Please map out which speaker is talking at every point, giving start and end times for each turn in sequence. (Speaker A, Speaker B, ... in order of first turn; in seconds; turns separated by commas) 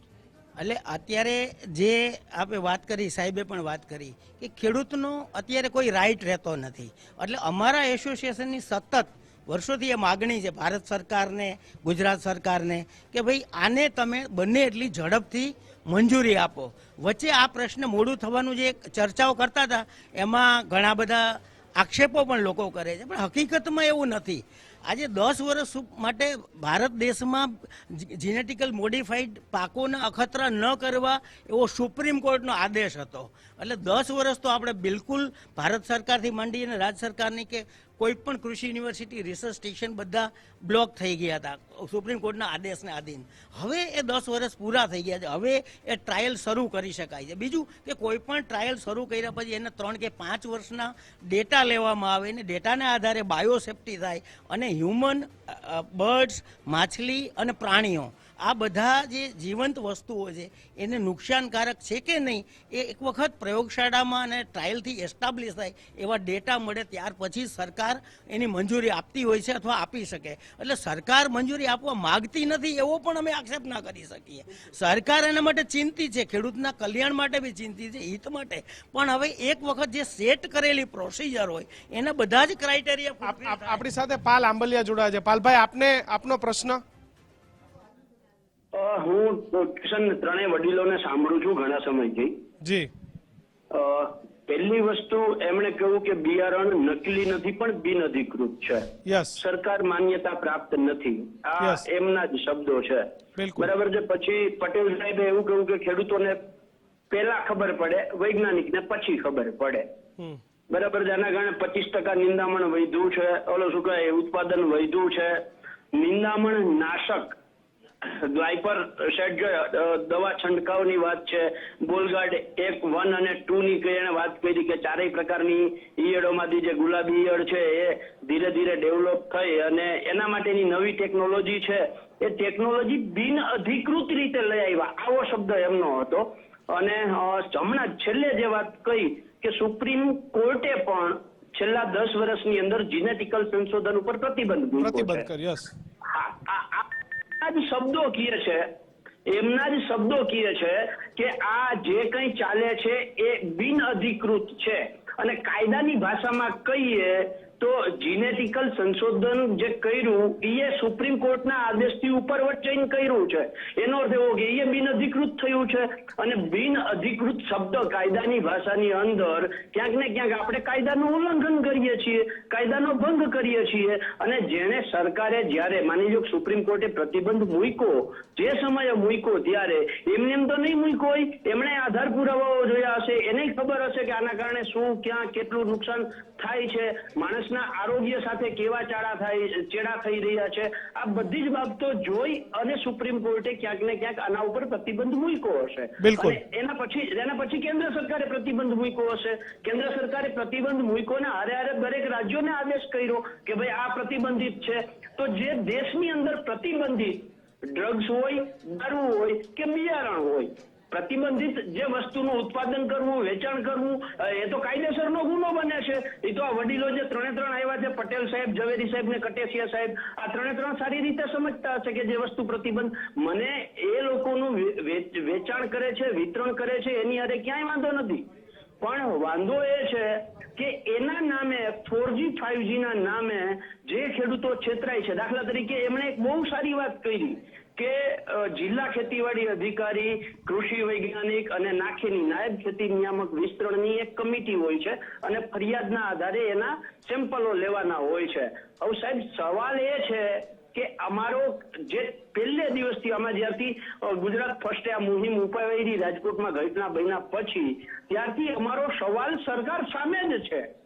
Speaker A: 0.6-83.8, Speaker B: 83.2-86.8, Speaker C: 88.7-92.4, Speaker B: 92.6-92.9, Speaker C: 93.7-106.4, Speaker B: 99.1-99.4, Speaker B: 103.4-103.7, Speaker C: 107.1-109.9, Speaker C: 110.7-117.4, Speaker C: 118.0-145.3, Speaker B: 144.8-145.7, Speaker C: 146.1-148.7, Speaker C: 149.3-228.3, Speaker B: 196.0-196.4, Speaker C: 228.8-260.7